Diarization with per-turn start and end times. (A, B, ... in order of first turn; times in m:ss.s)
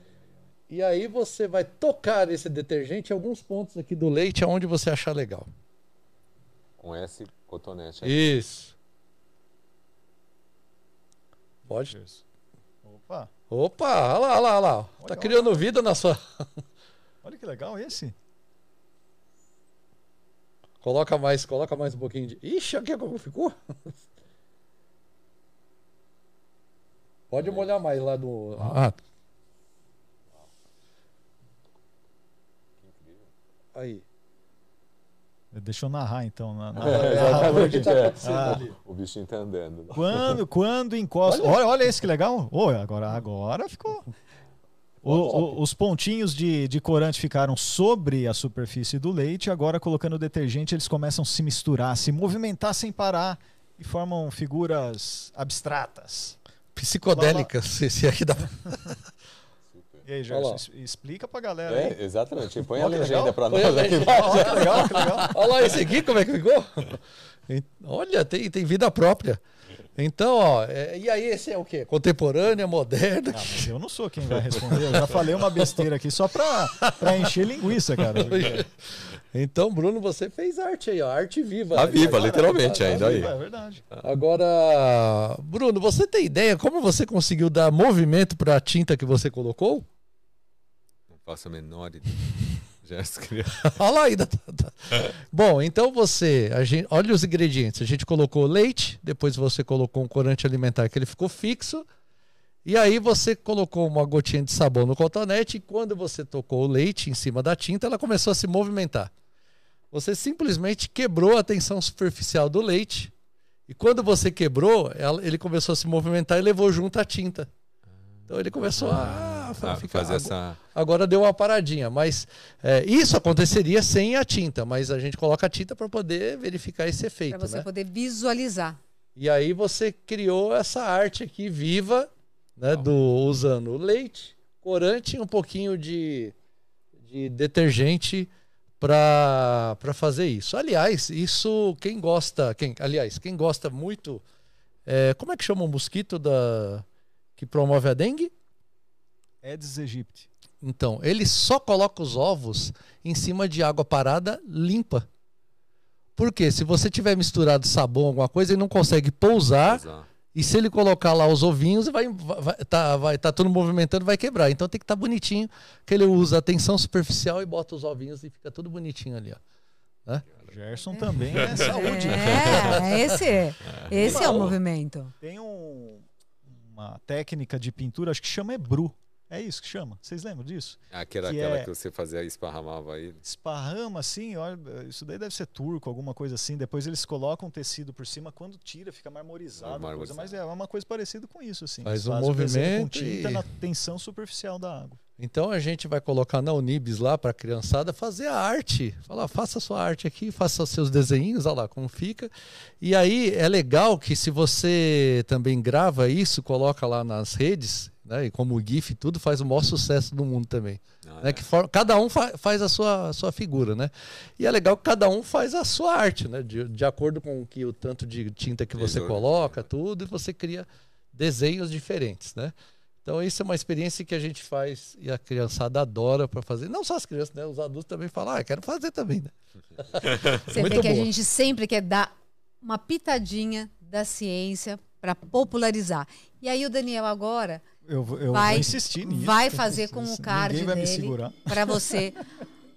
0:00.7-0:05.5 A
0:06.8-0:08.3 B
0:08.0-0:08.7 A
0:11.7-0:12.0 A
0:11.7-0:12.2 C
0:12.8-0:13.3 C
0:13.5-0:16.6 A
0:15.0-0:15.7 C
0:17.2-0:18.1 C
0:20.8-0:24.1 A
0:27.3-0:29.0 A
0:27.4-0:27.7 B
0:32.8-0:33.3 B
0:33.7-0:34.0 A
0:35.5-0:38.6 C
0:36.8-0:38.8 A
0:36.8-0:40.4 B
0:39.9-0:44.1 C
0:41.2-0:41.6 A
0:45.0-0:56.4 C
0:45.0-0:45.6 B
0:56.7-0:59.0 A
0:57.1-0:57.5 C
0:59.7-1:00.0 B
1:00.0-1:02.0 C
1:00.3-1:00.6 A
1:01.7-1:05.0 B
1:02.6-1:03.4 C
1:03.5-1:09.4 A
1:04.0-1:05.4 C
1:09.9-1:13.7 A
1:13.3-1:18.6 C
1:14.5-1:15.8 A
1:16.7-1:23.3 A
1:21.7-1:23.3 B
1:21.8-1:23.8 C
1:24.0-1:29.9 A
1:31.1-1:33.8 B
1:33.6-1:41.9 A
1:42.6-1:49.1 A
1:49.9-1:53.1 A
1:53.7-1:57.5 A
1:58.3-2:07.7 A
1:58.6-2:00.6 B
2:07.3-2:08.8 D
2:09.2-2:16.3 A
2:17.0-2:24.2 A
2:24.8-2:26.8 A
2:27.4-2:28.3 A
2:29.4-2:30.3 C
2:30.6-2:35.1 A
2:36.2-2:39.8 A
2:39.6-2:40.1 B
2:40.3-2:49.4 A
2:50.5-2:52.9 C
2:50.9-2:55.1 D
2:51.2-2:52.8 B
2:53.6-2:54.6 B
2:54.0-2:54.4 C
2:55.2-3:01.7 C
3:00.9-3:03.2 B
3:03.2-3:15.0 C
3:09.6-3:10.3 B
3:11.8-3:13.4 A
3:15.2-3:51.0 A
3:31.0-3:31.4 B
3:38.7-3:39.7 B
3:50.0-3:50.4 B
3:50.4-3:57.6 D
3:50.5-3:51.1 C
3:57.8-4:02.0 C
3:58.3-4:02.2 D